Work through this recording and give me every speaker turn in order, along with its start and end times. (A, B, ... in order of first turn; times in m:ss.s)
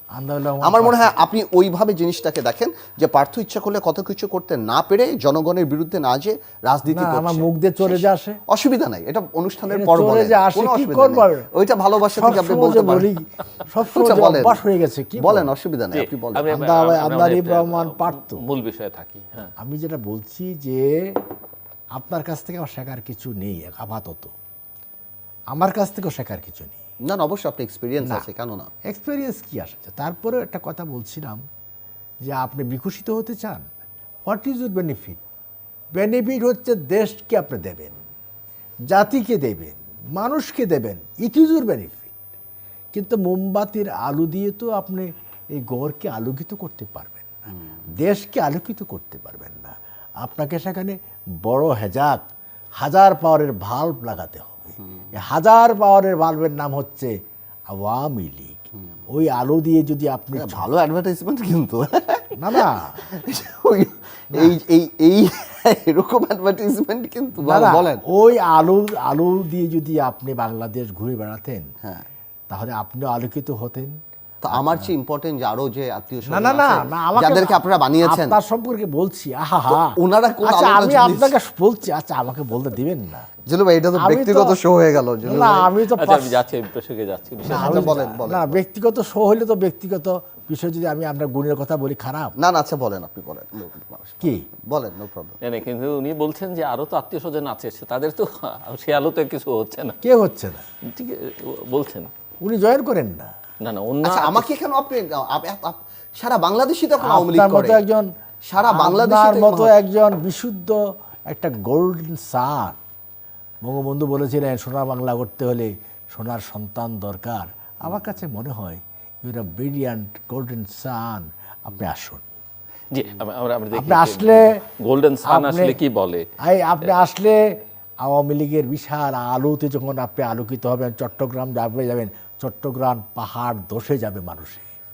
0:00.1-0:01.1 A
0:00.6-0:13.1 B
0:06.9-0:08.4 A
0:09.7-0:11.5 A
0:12.1-0:15.5 A
0:13.9-0:14.6 B
0:15.2-0:16.5 B
0:15.9-0:19.5 C
0:16.5-0:18.4 A
0:19.6-0:21.2 A
0:21.9-0:24.3 A
0:25.5-0:26.8 A
0:27.0-0:28.7 B
0:28.9-0:31.4 A
0:32.2-0:33.7 A
0:34.2-0:35.2 A
0:35.9-0:38.0 A
0:38.9-0:42.1 A
0:42.9-0:47.4 A
0:48.0-0:52.2 A
0:52.8-0:57.1 A
0:57.7-1:00.6 A
1:00.4-1:08.0 B
1:02.4-1:03.0 A
1:07.4-1:11.7 A
1:12.5-1:14.0 A
1:14.4-1:18.4 B
1:14.5-1:14.9 A
1:16.3-1:23.3 A
1:19.7-1:21.4 B
1:23.4-1:25.7 B
1:24.0-1:24.6 A
1:25.2-1:26.4 A
1:26.0-1:28.0 C
1:27.4-1:28.6 B
1:27.5-1:32.3 A
1:32.4-1:35.4 B
1:34.2-1:34.4 A
1:35.4-1:40.0 C
1:40.0-1:40.6 A
1:40.9-1:42.1 C
1:42.4-1:43.3 A
1:43.6-1:44.5 C
1:44.0-1:47.8 B
1:47.0-1:52.8 A
1:48.5-1:49.8 B
1:53.6-2:02.2 A
2:02.9-2:06.3 C
2:03.7-2:04.6 A
2:05.2-2:05.8 A
2:06.4-2:14.7 A